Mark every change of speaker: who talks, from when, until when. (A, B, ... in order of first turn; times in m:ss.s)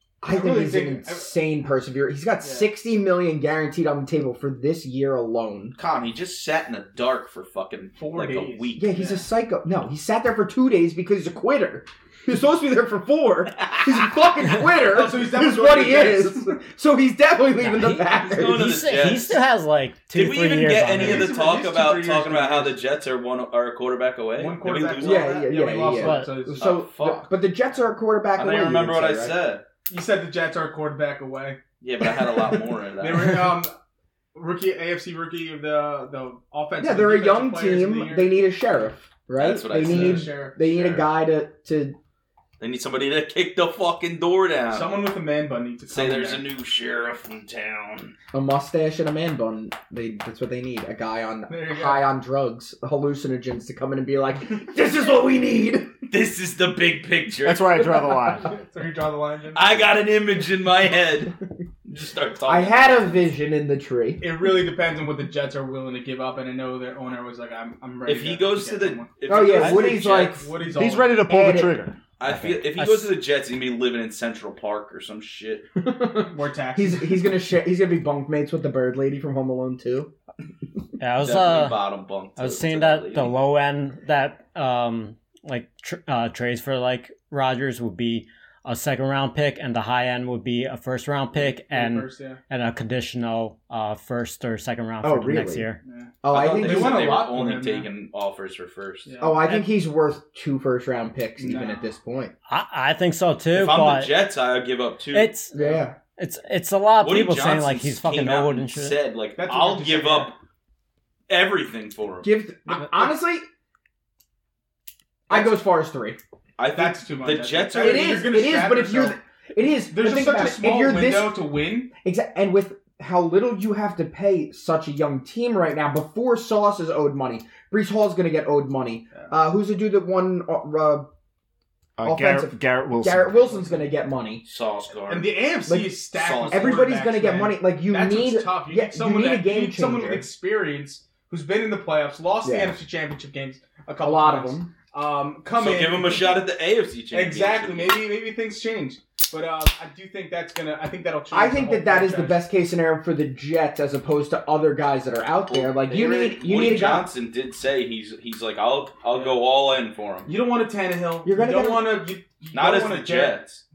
0:00.2-0:05.7 A
0:00.3-0:01.3 B
0:02.4-0:02.7 B
0:05.8-0:08.9 C
0:08.0-0:09.2 B
0:08.8-0:19.1 A
0:14.8-0:16.6 B
0:17.6-0:21.4 D
0:18.1-0:19.4 C
0:20.1-0:25.5 C
0:20.9-0:22.8 B
0:24.4-0:26.7 B
0:25.0-0:29.4 A
0:25.9-0:26.4 D
0:26.6-0:27.3 C
0:28.4-0:29.6 C
0:29.9-0:31.6 B
0:31.8-0:33.5 C
0:33.0-0:33.7 B
0:34.3-0:38.3 B
0:36.8-0:42.0 A
0:39.4-0:41.1 C
0:39.8-0:40.5 B
0:42.6-0:44.9 C
0:44.7-0:46.5 B
0:45.9-0:48.1 C
0:48.3-0:55.9 A
0:51.5-0:52.0 B
0:56.1-0:57.7 C
0:57.4-0:58.5 E
0:58.4-0:59.8 B
0:59.5-1:03.3 C
1:02.4-1:04.2 A
1:04.2-1:11.2 B
1:08.0-1:10.4 C
1:09.3-1:10.5 A
1:10.7-1:12.0 E
1:11.3-1:11.8 A
1:12.2-1:15.7 C
1:15.8-1:20.1 A
1:16.2-1:17.3 B
1:21.0-1:21.8 D
1:21.2-1:23.3 C
1:22.4-1:35.8 D
1:31.3-1:32.4 B
1:35.0-1:35.7 A
1:35.8-1:37.9 B
1:36.2-1:37.1 A
1:36.3-1:39.1 C
1:39.0-1:39.6 B
1:39.2-1:42.3 A
1:41.4-1:41.9 B
1:42.5-1:44.1 D
1:43.5-1:45.3 C
1:45.1-1:45.6 D
1:45.5-1:46.0 A
1:46.2-1:49.0 D
1:47.0-1:50.4 C
1:49.4-1:50.3 B
1:51.3-1:52.3 C
1:52.2-1:53.4 A
1:55.3-1:56.2 A
1:56.6-1:58.3 C
1:56.7-1:59.2 B
1:57.8-2:01.4 A
1:59.9-2:01.9 B
2:01.9-2:11.1 A
2:12.0-2:13.5 E
2:12.0-2:14.4 A
2:14.4-2:15.3 C
2:15.1-2:26.4 B
2:15.7-2:20.3 A
2:16.1-2:16.9 C
2:22.4-2:22.8 A
2:24.0-2:24.7 A
2:25.6-2:28.0 C
2:27.1-2:32.4 B
2:31.3-2:37.1 A
2:35.5-2:40.3 C
2:39.1-2:39.4 B
2:40.2-2:43.4 B
2:41.2-2:42.0 A
2:42.5-2:43.6 C